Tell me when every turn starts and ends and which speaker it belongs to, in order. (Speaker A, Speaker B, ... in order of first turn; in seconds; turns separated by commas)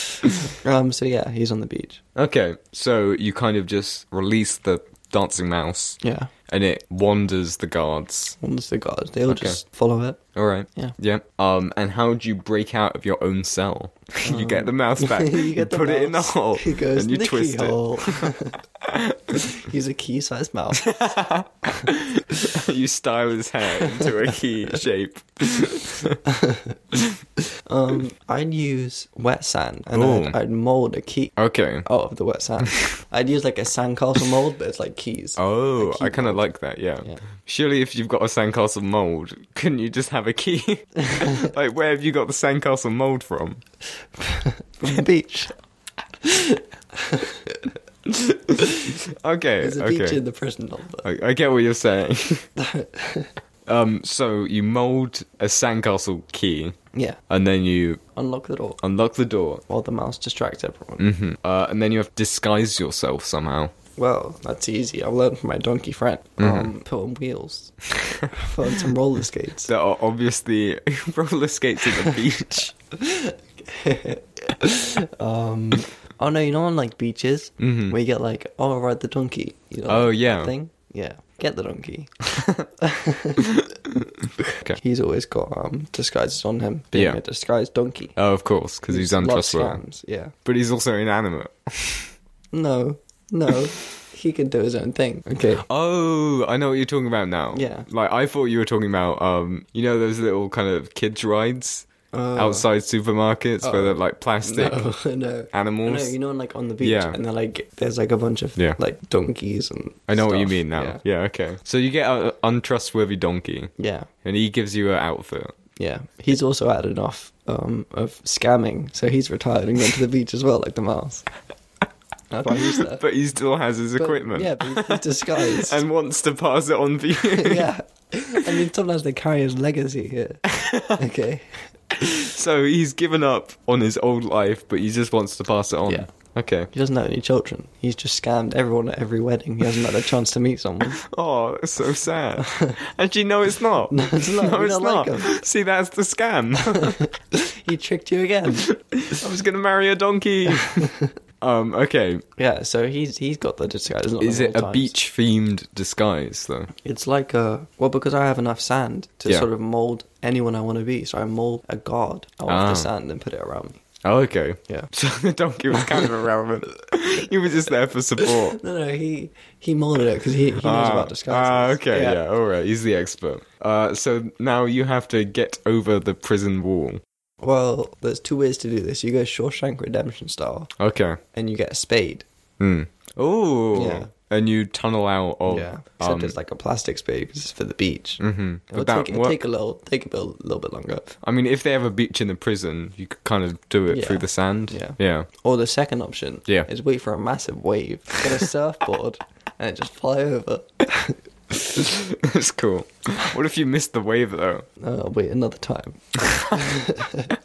Speaker A: 0.2-0.5, Speaker B: 0.6-2.0, Speaker A: 2.1-8.4, Speaker B: 6.0-6.3, Speaker B: 8.4-10.2, Speaker A: 9.3-9.6, Speaker A: 10.3-19.4, Speaker B: 14.2-18.6, Speaker B: 19.3-20.9, Speaker A: 20.8-26.2, Speaker B: 23.8-24.1, Speaker B: 26.2-26.8, Speaker B: 27.6-36.4, Speaker A: 29.9-30.4, Speaker A: 31.4-31.9, Speaker A: 35.4-43.6, Speaker B: 41.1-41.4, Speaker B: 44.2-45.5, Speaker B: 46.2-47.7, Speaker A: 48.0-50.2, Speaker B: 49.6-51.0, Speaker A: 51.0-52.5, Speaker B: 52.6-53.3, Speaker A: 53.6-56.8, Speaker B: 56.9-57.2, Speaker A: 57.3-58.0, Speaker B: 58.1-58.8, Speaker A: 58.8-59.6, Speaker B: 59.7-61.0, Speaker A: 61.0-63.7, Speaker B: 64.0-67.8, Speaker A: 66.4-66.7, Speaker A: 68.0-68.3, Speaker B: 68.3-69.7, Speaker A: 69.7-72.7, Speaker B: 72.9-82.1, Speaker A: 77.6-78.0, Speaker A: 79.9-80.5, Speaker A: 82.3-82.7, Speaker B: 82.8-83.5, Speaker A: 83.4-83.7, Speaker B: 84.7-88.1, Speaker A: 86.9-87.2, Speaker A: 88.2-89.8, Speaker B: 88.9-90.3, Speaker A: 90.4-92.1, Speaker B: 92.5-95.6, Speaker A: 95.6-104.9, Speaker B: 97.5-97.9, Speaker B: 102.1-102.7, Speaker B: 103.6-111.0, Speaker A: 105.5-106.1, Speaker A: 106.8-107.2, Speaker A: 110.1-113.7, Speaker B: 113.8-114.1, Speaker A: 114.2-115.5, Speaker B: 115.8-121.3, Speaker B: 122.3-123.0, Speaker A: 122.6-127.7, Speaker B: 124.0-125.8, Speaker B: 127.3-131.7, Speaker A: 130.5-131.0, Speaker A: 132.0-136.7, Speaker B: 136.7-141.0, Speaker A: 141.0-147.1, Speaker B: 142.4-142.8, Speaker B: 143.9-145.4, Speaker B: 146.7-148.7, Speaker A: 148.7-152.2, Speaker B: 152.4-154.9, Speaker A: 154.2-156.7, Speaker B: 156.8-163.8, Speaker A: 162.5-162.9, Speaker A: 164.0-168.6, Speaker B: 168.2-172.2, Speaker A: 170.6-177.0, Speaker B: 177.4-180.7, Speaker A: 180.8-181.2, Speaker B: 181.3-182.2, Speaker A: 182.6-186.3, Speaker B: 183.7-184.1, Speaker B: 185.5-191.2, Speaker A: 188.2-189.4, Speaker A: 191.2-195.3, Speaker B: 193.9-201.7, Speaker A: 201.7-204.7, Speaker B: 204.8-207.3, Speaker A: 206.2-206.6